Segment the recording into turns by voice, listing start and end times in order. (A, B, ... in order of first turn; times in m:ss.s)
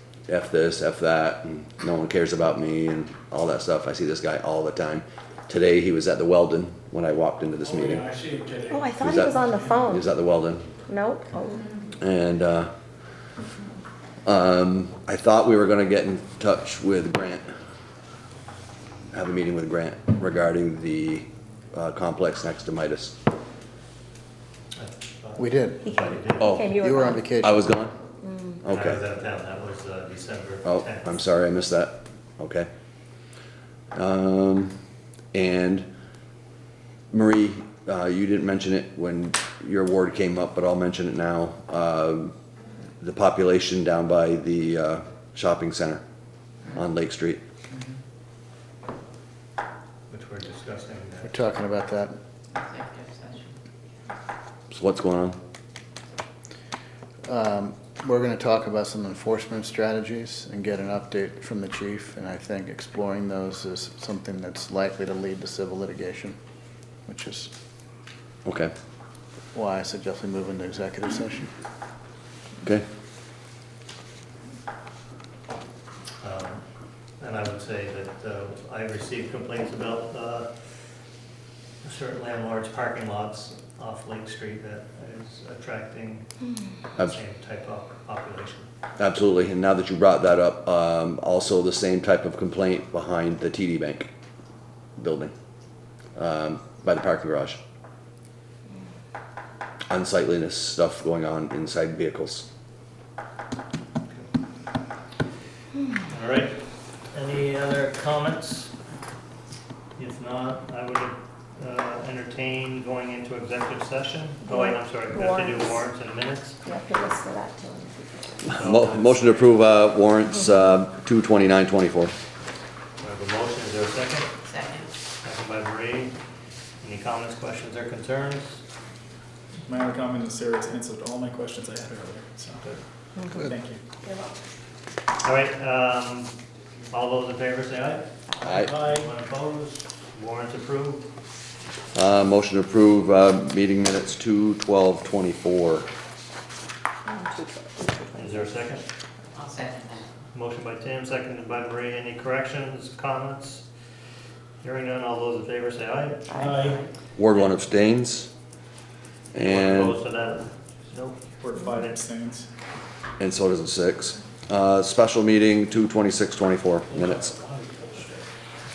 0:00.3-0:08.1 A
0:07.6-0:08.9 B
0:08.7-0:10.1 C
0:09.0-0:10.7 A
0:10.9-0:11.7 C
0:12.0-0:12.7 A
0:14.2-0:17.5 A
0:19.1-0:23.2 A
0:24.8-0:26.6 D
0:25.4-0:25.9 E
0:25.9-0:27.2 C
0:26.4-0:26.8 A
0:26.6-0:27.7 E
0:27.4-0:27.9 A
0:28.2-0:28.6 C
0:28.6-0:29.0 A
0:28.7-0:31.2 D
0:30.6-0:32.7 A
0:33.9-0:34.8 A
0:35.3-0:35.9 A
0:37.1-0:42.4 A
0:43.0-0:46.0 A
0:46.7-0:47.4 A
0:50.1-0:51.5 D
0:51.2-0:52.2 E
0:52.5-0:53.5 F
0:54.7-0:55.4 A
0:57.2-1:06.4 E
1:07.1-1:07.5 E
1:08.4-1:08.7 A
1:09.5-1:11.5 E
1:16.2-1:16.6 D
1:17.2-1:20.5 D
1:21.8-1:26.3 D
1:26.9-1:28.7 D
1:29.0-1:34.1 A
1:35.0-1:35.3 A
1:36.2-1:37.6 A
1:39.9-1:42.5 A
1:46.1-1:48.7 D
1:50.0-1:56.6 D
1:54.4-1:55.8 C
1:56.6-1:58.4 C
1:58.5-1:59.7 D
1:58.5-2:02.1 A
2:03.0-2:04.3 D
2:04.5-2:04.9 F
2:05.2-2:06.2 D
2:06.8-2:08.6 D
2:09.7-2:12.7 B
2:13.2-2:13.4 C
2:13.3-2:13.8 B
2:15.2-2:16.4 D
2:16.9-2:21.1 D
2:18.4-2:18.7 A
2:21.9-2:25.9 A
2:27.1-2:28.5 C
2:28.2-2:28.8 D
2:29.4-2:30.1 F
2:30.3-2:33.7 D
2:34.6-2:36.6 D
2:36.3-2:36.8 B
2:37.2-2:38.3 A
2:39.3-2:40.0 A
2:39.4-2:41.2 D
2:41.4-2:42.5 B
2:43.2-2:47.4 A
2:46.9-2:48.2 B